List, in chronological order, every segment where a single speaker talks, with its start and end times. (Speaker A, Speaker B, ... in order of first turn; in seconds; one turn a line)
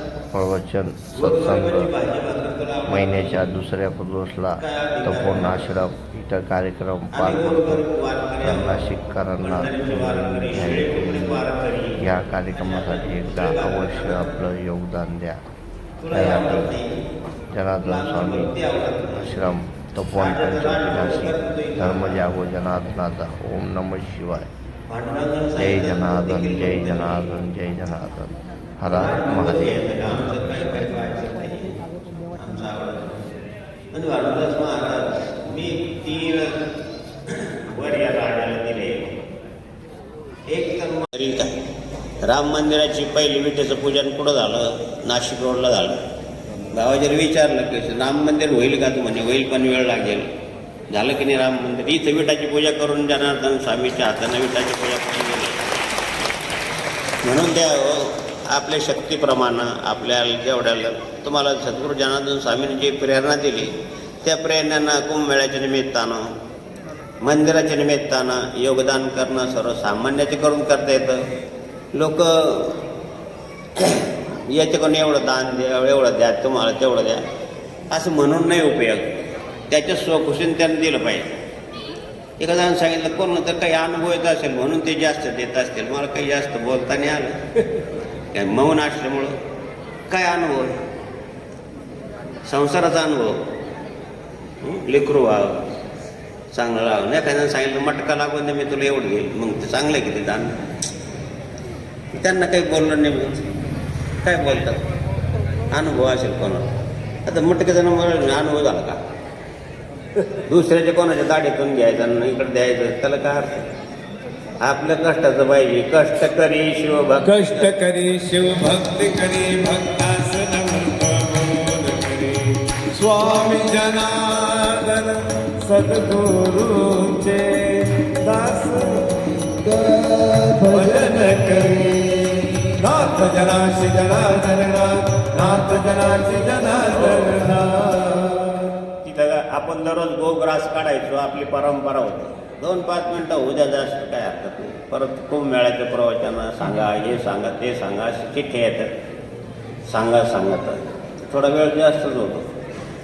Speaker A: 0.3-1.9
Speaker B: 1.1-3.5
Speaker A: 2.9-7.8
Speaker B: 4.6-5.7
Speaker B: 7.1-8.8
Speaker A: 8.4-11.4
Speaker B: 9.4-14.4
Speaker A: 12.0-15.4
Speaker B: 16.0-17.0
Speaker A: 16.1-16.7
Speaker A: 17.5-18.6
Speaker B: 17.8-19.4
Speaker A: 19.1-24.5
Speaker B: 20.1-22.3
Speaker B: 24.9-27.2
Speaker A: 25.6-29.8
Speaker B: 28.9-31.8
Speaker B: 32.3-33.3
Speaker B: 33.9-36.5
Speaker B: 37.3-39.1
Speaker B: 40.5-41.5
Speaker B: 42.2-46.0
Speaker B: 46.7-50.3
Speaker B: 50.9-55.6
Speaker B: 57.2-63.7
Speaker B: 64.2-66.3
Speaker B: 67.2-71.2
Speaker B: 71.9-72.8
Speaker B: 73.8-77.2
Speaker B: 77.9-81.3
Speaker B: 82.4-87.4
Speaker B: 88.3-89.3
Speaker B: 90.1-90.8
Speaker B: 92.5-93.4
Speaker B: 94.6-95.6
Speaker B: 96.5-100.6
Speaker B: 102.2-103.4
Speaker B: 104.2-104.8
Speaker B: 105.7-106.7
Speaker B: 107.2-109.0
Speaker B: 110.2-113.7
Speaker B: 114.6-117.6
Speaker C: 117.2-138.7
Speaker B: 136.9-137.4
Speaker B: 139.0-148.9
Speaker B: 149.9-152.5